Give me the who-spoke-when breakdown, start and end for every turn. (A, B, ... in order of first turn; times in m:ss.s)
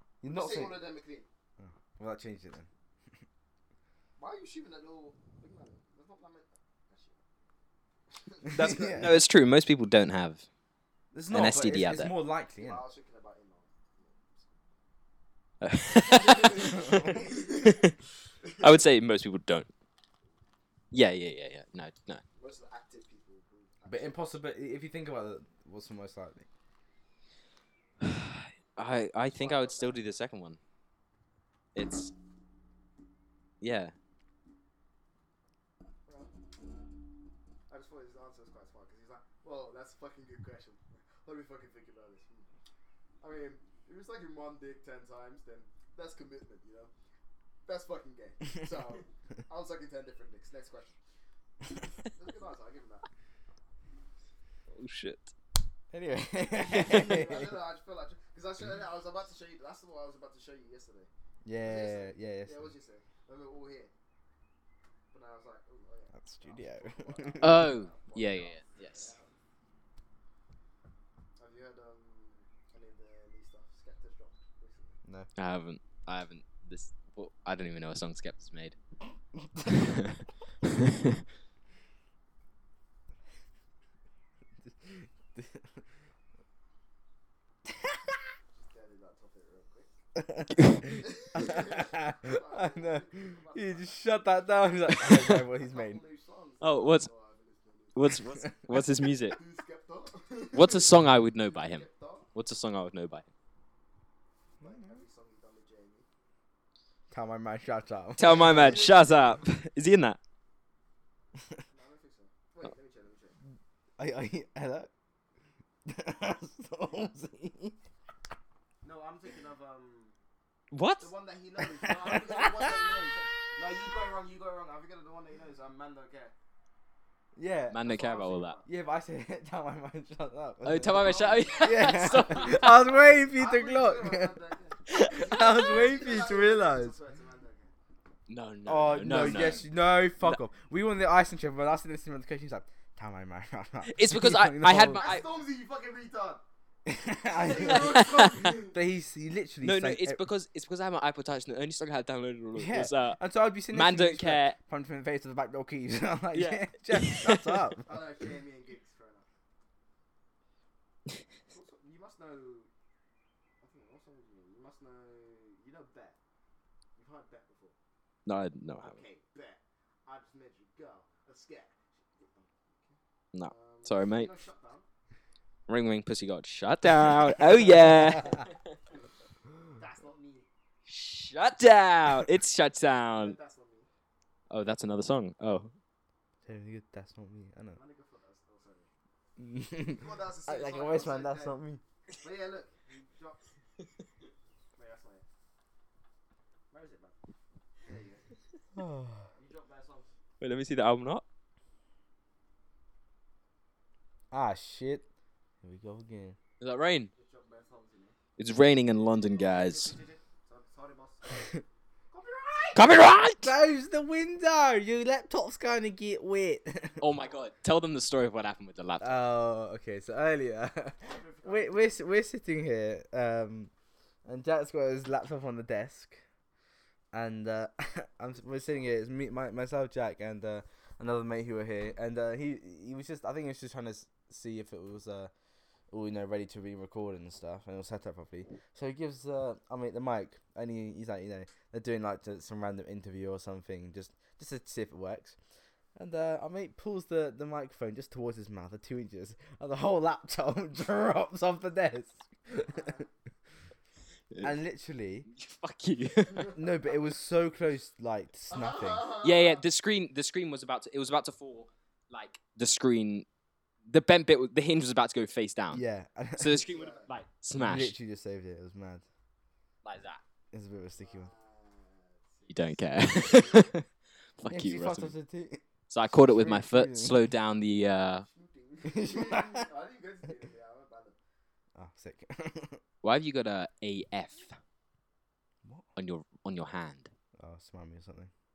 0:00.2-0:00.8 A
0:00.2-0:01.3 B
0:01.6-0:03.2 A
0:04.2-0:07.2 B
0:08.1-0:09.0 B
0:08.5-0:09.2 A
0:08.5-0:10.5 C
0:11.1-0:12.8 A
0:11.3-0:12.1 C
0:12.6-0:14.8 B
0:15.6-0:17.9 C
0:16.0-0:17.8 B
0:16.8-0:17.1 A
0:18.6-0:19.7 C
0:20.9-0:22.2 C
0:22.4-0:24.3 B
0:23.9-0:26.5 A
0:28.0-0:30.6 C
0:29.3-0:30.0 B
0:31.8-0:32.1 C
0:33.6-0:33.9 C
0:36.1-0:36.3 B
0:37.7-0:42.5 B
0:43.2-0:46.9 B
0:47.6-0:51.0 B
0:52.1-0:53.1 B
0:54.7-0:55.3 C
0:55.9-0:57.6 A
0:56.5-1:01.1 B
1:01.4-1:02.7 A
1:01.6-1:03.9 B
1:05.1-1:09.4 B
1:06.1-1:07.7 A
1:07.4-1:09.1 C
1:11.4-1:15.0 B
1:15.0-1:15.3 A
1:15.4-1:18.8 C
1:19.7-1:20.2 C
1:24.6-1:25.8 A
1:28.5-1:29.9 B
1:30.2-1:36.0 A
1:31.0-1:34.4 B
1:35.3-1:38.2 B
1:36.6-1:37.1 C
1:38.0-1:39.4 C
1:39.3-1:42.3 B
1:40.5-1:43.3 C
1:44.6-1:46.1 B
1:44.6-1:45.0 A
1:47.1-1:48.9 A
1:48.2-1:50.2 C
1:48.3-1:49.3 B
1:51.7-1:53.4 B
1:54.0-1:54.9 A
1:55.9-1:57.8 A
1:58.8-2:00.2 B
2:00.7-2:01.1 C
2:01.0-2:06.3 B
2:01.9-2:02.6 A
2:07.4-2:07.9 A
2:07.7-2:08.6 C
2:07.8-2:08.9 B
2:08.6-2:14.4 A
2:10.6-2:12.8 C
2:10.9-2:12.6 B
2:13.3-2:17.7 B
2:14.9-2:15.5 C
2:14.9-2:17.0 A
2:18.3-2:19.7 C
2:18.6-2:25.1 A
2:19.1-2:19.6 B
2:23.9-2:25.2 C
2:24.9-2:26.4 B
2:26.9-2:30.2 A
2:27.3-2:28.8 B
2:27.6-2:28.3 C
2:29.6-2:34.6 C
2:32.6-2:38.0 A
2:36.3-2:37.6 C
2:37.9-2:39.2 B
2:41.5-2:42.7 B
2:43.6-2:46.2 B
2:47.0-2:47.8 B
2:48.3-2:49.0 C
2:48.8-2:54.8 B
2:53.3-2:54.3 C
2:55.7-2:58.5 C
2:59.7-3:00.5 B
3:00.9-3:03.4 C
3:03.1-3:03.9 B
3:04.5-3:05.7 C
3:06.4-3:07.8 A
3:07.7-3:08.9 B
3:09.4-3:11.8 A
3:09.9-3:11.6 B
3:12.2-3:13.5 B
3:14.8-3:15.2 B
3:16.7-3:17.2 B
3:17.8-3:18.3 B
3:18.8-3:19.3 A
3:19.3-3:20.1 B
3:20.4-3:21.2 C
3:24.3-3:25.1 A
3:25.6-3:26.4 A
3:26.6-3:27.1 C
3:27.1-3:28.2 B
3:28.4-3:30.0 C
3:29.3-3:31.6 B
3:32.1-3:32.8 B
3:32.8-3:33.5 C
3:33.4-3:37.0 A
3:37.0-3:39.3 C
3:39.0-3:43.7 A
3:41.0-3:42.1 B
3:44.2-3:46.2 A
3:47.1-3:55.3 A
3:48.3-3:49.0 B
3:55.9-4:05.4 A
4:06.0-4:13.0 A
4:12.7-4:13.1 B
4:14.3-4:14.6 C
4:14.4-4:15.3 A
4:15.3-4:16.6 C
4:16.5-4:19.1 A
4:18.5-4:19.6 B
4:19.2-4:23.3 C
4:23.9-4:25.8 C
4:25.7-4:26.6 A
4:26.4-4:28.0 C
4:26.6-4:27.1 B
4:27.6-4:29.1 A
4:29.8-4:30.2 C
4:30.5-4:31.3 A
4:31.0-4:33.7 B
4:32.5-4:33.9 C
4:34.4-4:35.2 C
4:34.5-4:37.3 A
4:35.9-4:38.2 C
4:38.1-4:41.2 B
4:38.9-4:39.7 A
4:41.8-4:42.8 A
4:43.0-4:44.6 C
4:46.0-4:47.1 C
4:47.4-4:48.3 A